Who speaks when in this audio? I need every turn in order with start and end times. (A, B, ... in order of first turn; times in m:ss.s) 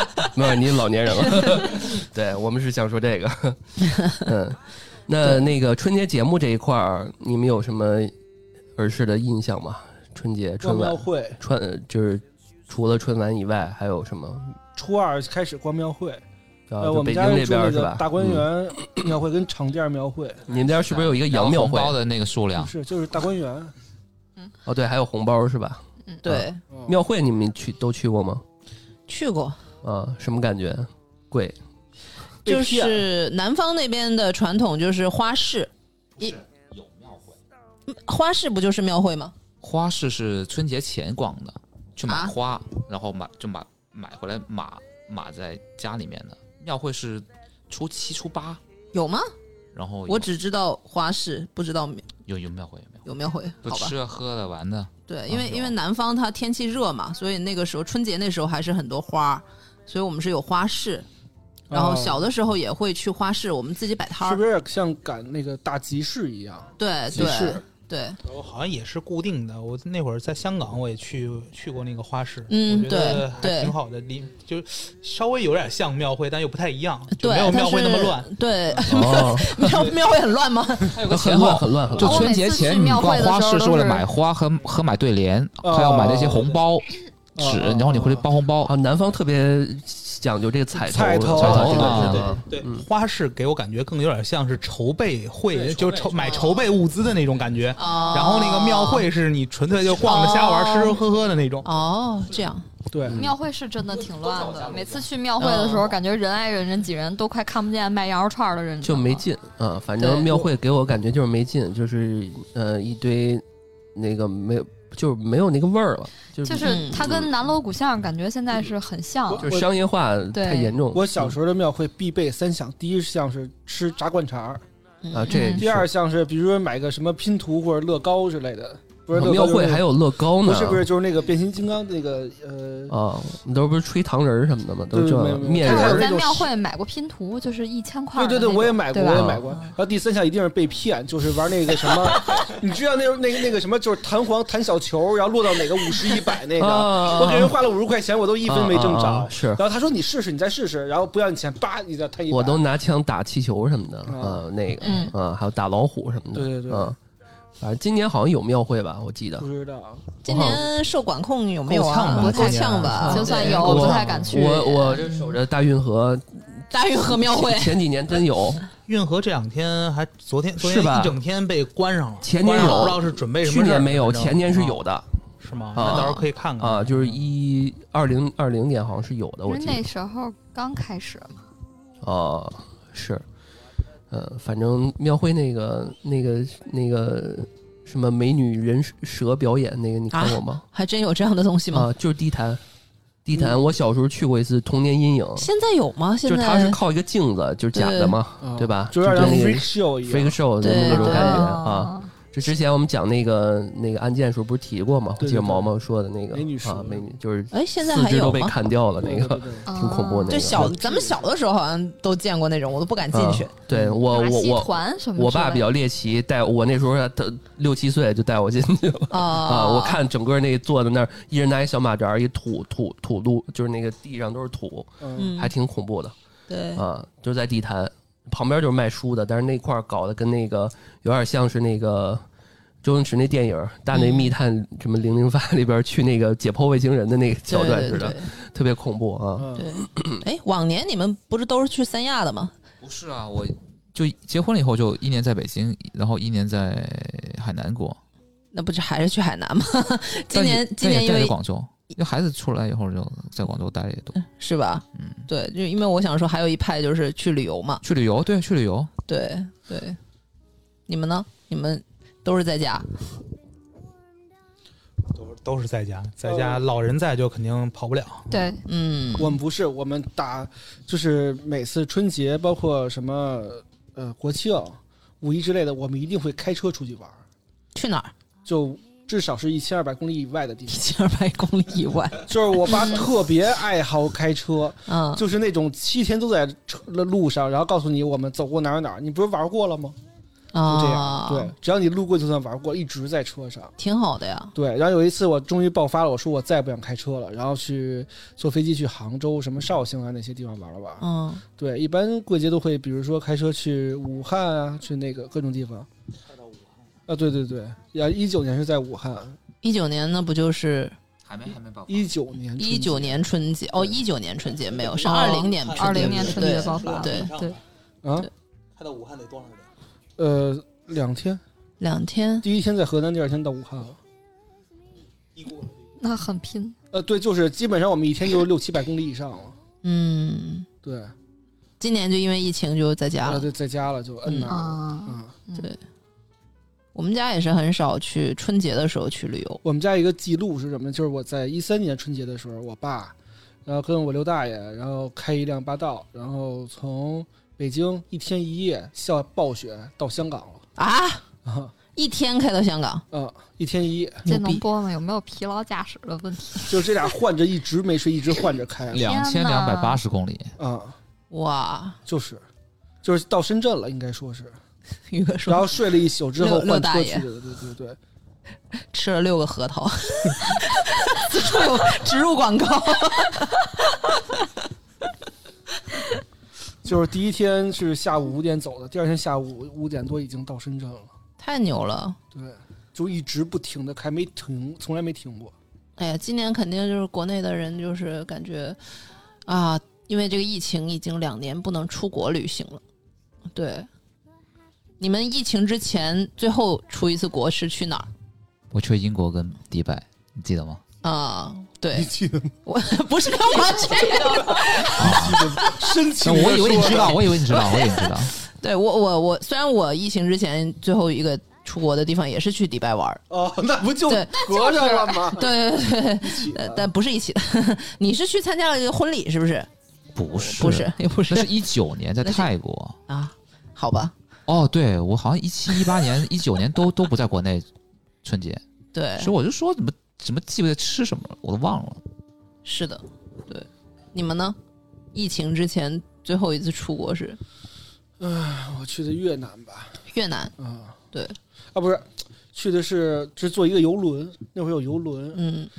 0:00.2-0:08.1 A
0:08.8-0:14.6 A
0:10.6-0:11.4 B
0:14.8-0:16.2 B
0:16.7-0:19.0 A
0:16.8-0:20.4 B
0:20.5-0:22.0 A
0:20.5-0:22.7 C
0:22.6-0:23.7 B
0:24.6-0:28.4 A
0:26.2-0:26.6 D
0:26.7-0:27.0 B
0:29.1-0:29.6 D
0:29.8-0:31.6 A
0:32.4-0:33.1 B
0:32.4-0:36.4 D
0:36.2-0:37.4 C
0:37.9-0:39.3 D
0:39.6-0:48.6 C
0:42.0-0:42.3 D
0:48.9-0:49.3 D
0:49.7-0:50.3 C
0:50.1-0:52.1 D
0:52.2-0:53.0 C
0:53.0-0:53.9 D
0:53.6-0:55.7 C
0:55.1-1:01.0 D
1:01.7-1:02.3 B
1:01.7-1:04.4 D
1:04.2-1:07.6 B
1:06.8-1:08.2 D
1:08.2-1:18.3 E
1:12.5-1:13.8 D
1:17.2-1:21.0 D
1:18.8-1:19.9 A
1:19.6-1:19.9 E
1:20.9-1:22.3 A
1:20.9-1:28.7 C
1:22.0-1:24.0 F
1:25.6-1:26.6 B
1:27.4-1:28.3 B
1:28.6-1:32.8 A
1:30.7-1:32.3 B
1:31.3-1:32.3 C
1:31.5-1:41.7 E
1:35.5-1:36.4 C
1:36.2-1:36.5 D
1:37.8-1:39.1 D
1:39.9-1:41.0 D
1:41.6-1:42.6 D
1:42.9-1:43.3 B
1:43.0-1:43.3 A
1:43.1-1:49.2 F
1:43.8-1:45.1 C
1:45.4-1:45.9 D
1:48.8-1:53.4 A
1:50.0-1:50.3 D
1:53.9-1:57.3 A
1:56.4-1:59.5 F
1:56.6-1:57.0 D
1:59.3-1:59.7 B
1:59.4-2:01.3 A
2:00.3-2:00.7 F
2:00.9-2:04.6 B
2:05.0-2:05.6 D
2:05.1-2:05.9 A
2:05.3-2:05.6 F
2:05.6-2:09.9 B
2:09.1-2:10.9 A
2:10.4-2:12.9 B
2:12.9-2:16.1 A
2:14.9-2:16.5 B
2:15.6-2:19.6 F
2:18.2-2:32.6 B
2:19.1-2:19.4 A
2:26.6-2:27.6 A
2:28.4-2:29.6 A
2:32.3-2:37.0 A
2:34.0-2:34.4 B
2:34.8-2:35.1 F
2:36.3-2:37.0 B
2:37.6-2:39.5 A
2:39.4-2:40.0 B
2:40.2-2:40.6 A
2:40.2-2:45.2 D
2:41.7-2:44.4 E
2:42.1-2:44.9 F
2:42.7-2:48.6 A
2:46.7-2:47.8 D
2:48.9-2:54.8 E
2:50.6-2:51.2 A
2:52.2-2:55.0 A
2:52.5-2:53.0 D
2:55.4-2:57.2 E
2:55.7-2:59.8 A
2:55.8-2:56.2 D
2:59.5-3:01.4 F
3:02.0-3:03.2 A
3:04.1-3:10.6 A
3:10.1-3:11.9 D
3:11.7-3:12.6 A
3:13.2-3:15.5 A
3:15.4-3:16.8 D
3:16.2-3:30.8 A
3:17.7-3:18.2 D
3:18.4-3:20.8 B
3:20.6-3:21.6 D
3:20.9-3:22.1 F
3:25.2-3:25.7 B
3:26.3-3:27.1 B
3:27.5-3:28.5 D
3:29.0-3:29.7 B
3:29.7-3:30.5 F
3:30.3-3:33.5 D
3:30.5-3:31.3 B
3:33.1-3:46.1 A
3:33.7-3:34.0 B
3:34.1-3:35.7 F
3:39.1-3:40.0 D
3:45.0-3:45.3 B
3:45.2-3:45.5 D
3:46.5-3:46.8 D
3:46.7-3:52.2 A
3:52.8-4:00.2 A
3:53.9-3:54.3 D
3:57.5-3:58.3 D
3:59.4-3:59.7 B
3:59.6-4:02.5 D
4:02.8-4:08.0 C
4:08.5-4:11.3 D
4:10.3-4:14.2 C
4:14.2-4:17.8 D
4:15.0-4:15.2 C
4:17.8-4:18.9 C
4:19.0-4:20.0 D
4:20.9-4:22.9 D
4:25.1-4:28.3 E
4:26.3-4:26.6 B
4:28.3-4:28.6 F
4:28.6-4:29.4 D
4:29.1-4:37.2 B
4:37.7-4:38.1 D
4:38.4-4:40.9 B
4:40.7-4:43.0 D
4:42.2-4:50.0 B
4:44.9-4:45.2 D
4:50.5-4:51.5 D
4:50.6-4:53.8 B
4:53.8-4:54.5 D
4:54.5-5:01.0 B
5:01.0-5:01.4 D
5:01.6-5:05.9 B
5:07.1-5:09.4 B
5:09.6-5:11.0 D
5:11.2-5:12.1 C
5:11.9-5:14.0 B
5:12.6-5:17.3 D
5:15.0-5:17.6 E
5:15.0-5:17.6 F
5:18.0-5:18.3 B
5:18.7-5:19.7 E
5:20.2-5:21.4 B
5:21.8-5:22.4 D
5:22.4-5:24.0 B
5:25.4-5:25.7 E
5:26.0-5:26.8 F
5:26.9-5:29.6 B
5:29.8-5:30.7 D
5:30.8-5:31.1 B
5:31.8-5:33.5 D
5:33.2-5:35.4 B
5:34.2-5:34.5 D
5:34.5-5:35.7 F
5:36.9-5:39.6 D
5:39.6-5:50.6 B
5:50.8-5:51.2 D
5:51.4-5:51.7 B
5:51.9-5:53.0 D
5:53.1-5:54.2 B
5:54.2-5:54.6 D
5:54.2-5:56.8 F
5:56.7-5:59.1 B
5:58.9-6:00.5 C
5:59.0-6:00.0 F
6:00.6-6:01.0 B
6:01.3-6:02.0 D
6:02.0-6:02.4 B
6:03.0-6:04.6 B
6:05.1-6:05.7 D
6:05.4-6:08.0 B
6:06.4-6:07.2 D
6:08.9-6:13.7 D
6:16.8-6:21.1 B
6:21.4-6:22.2 D
6:22.3-6:25.5 B
6:26.0-6:28.8 D
6:29.5-6:32.8 D
6:33.5-6:33.9 D
6:35.0-6:38.1 D
6:38.7-6:40.8 C
6:41.0-6:42.1 D
6:41.9-6:42.6 B
6:42.6-6:45.9 D
6:44.2-6:47.4 B
6:45.0-6:45.5 C
6:46.2-6:48.3 C
6:47.8-6:53.2 D
6:53.3-6:55.6 B
6:54.1-6:59.7 D
6:56.1-6:56.9 B
7:00.1-7:03.0 C
7:00.4-7:00.7 A
7:00.5-7:01.6 D
7:02.2-7:02.5 D
7:03.1-7:04.1 D
7:04.5-7:07.7 C
7:08.2-7:08.6 C
7:08.9-7:09.3 D
7:09.2-7:12.0 C
7:12.6-7:14.6 D
7:15.1-7:17.4 D
7:18.2-7:20.0 B
7:20.1-7:20.5 D
7:20.6-7:21.0 B
7:21.7-7:25.4 B
7:25.3-7:25.7 D